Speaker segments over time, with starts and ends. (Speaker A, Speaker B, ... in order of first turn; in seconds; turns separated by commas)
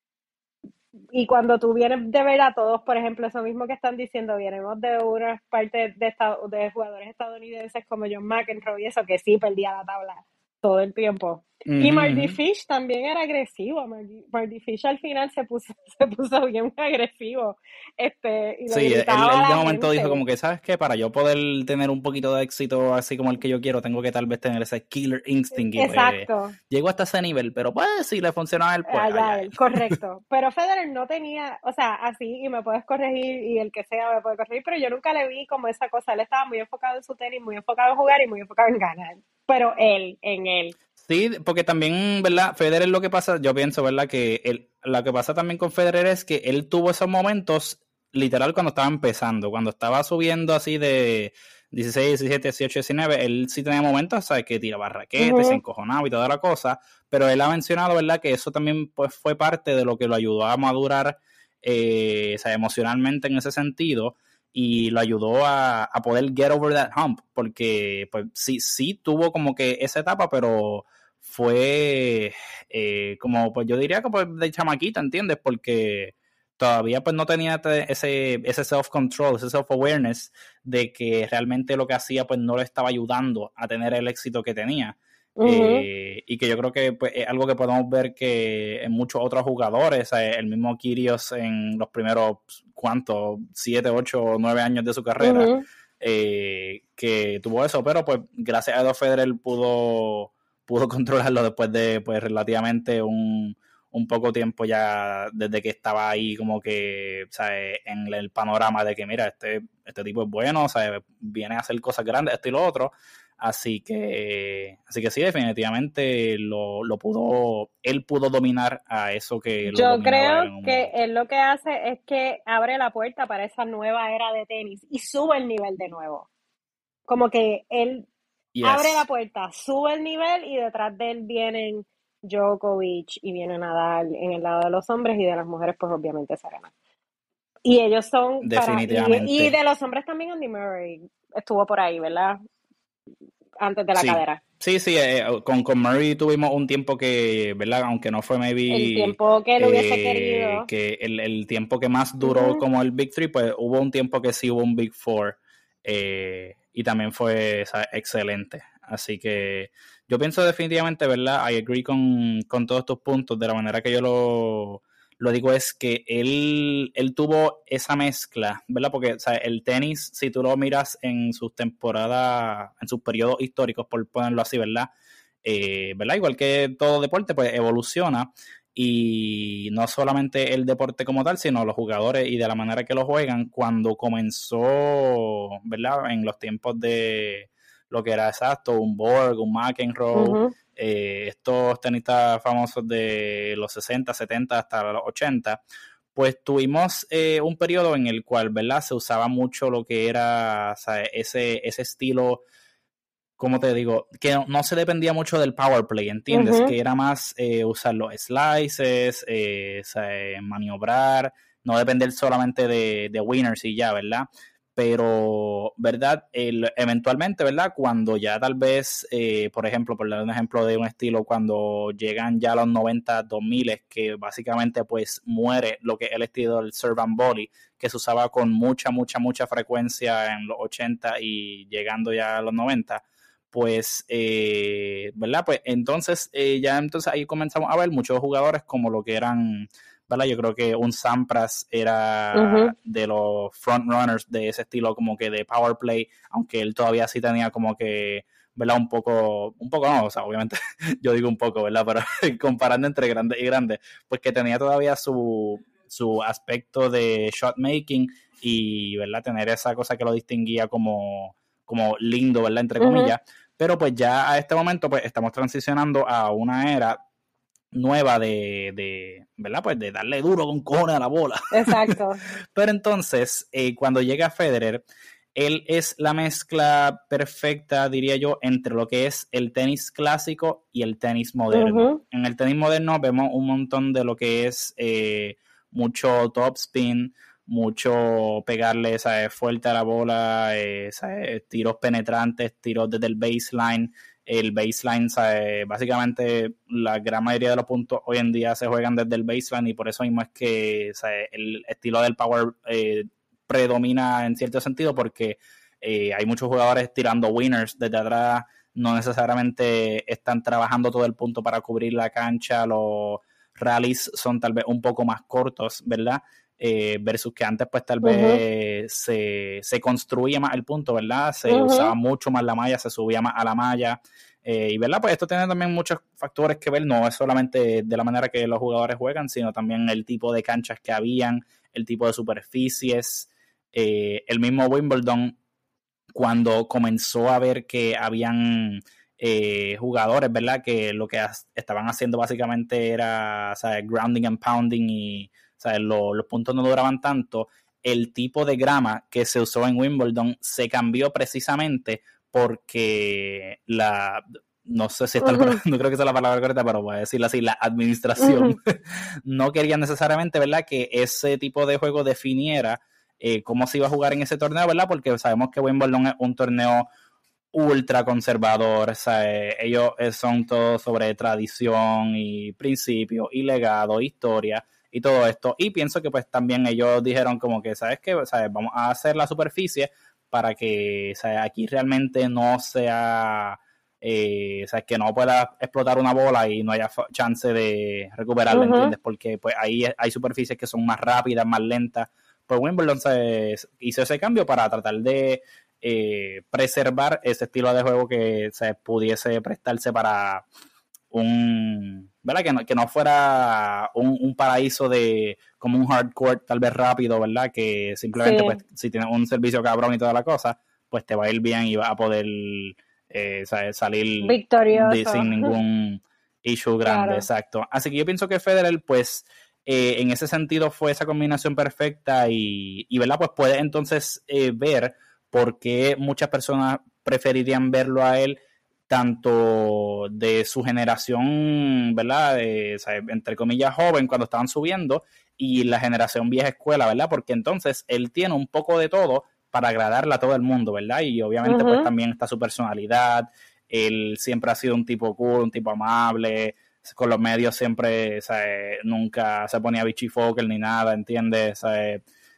Speaker A: 1.1-20.2, Speaker B: 11.7-12.4, Speaker B: 18.7-30.0, Speaker A: 25.7-26.5, Speaker A: 28.9-40.7, Speaker B: 41.0-120.9, Speaker A: 55.2-55.6, Speaker A: 85.4-85.8, Speaker A: 95.2-95.6, Speaker A: 119.7-126.3, Speaker A: 127.1-128.1, Speaker B: 128.5-129.0, Speaker A: 128.6-136.7, Speaker A: 137.6-142.4, Speaker B: 138.4-139.6, Speaker A: 143.6-144.4, Speaker B: 143.9-174.9, Speaker A: 148.7-150.7, Speaker A: 152.2-152.6, Speaker B: 175.4-195.6, Speaker A: 190.1-190.5, Speaker B: 196.1-202.4, Speaker B: 203.4-267.0, Speaker A: 206.3-206.7, Speaker A: 242.3-242.7, Speaker A: 262.8-263.1, Speaker B: 267.7-272.0, Speaker A: 271.5-272.2, Speaker B: 272.5-335.4, Speaker A: 281.5-282.0, Speaker A: 318.0-318.4, Speaker A: 321.5-321.9, Speaker B: 336.1-366.9, Speaker A: 355.2-355.6, Speaker A: 358.2-358.6, Speaker B: 367.5-400.4, Speaker A: 388.5-388.9, Speaker B: 401.1-452.0, Speaker A: 408.2-408.6, Speaker A: 414.2-415.5, Speaker A: 416.8-417.2, Speaker A: 441.4-441.9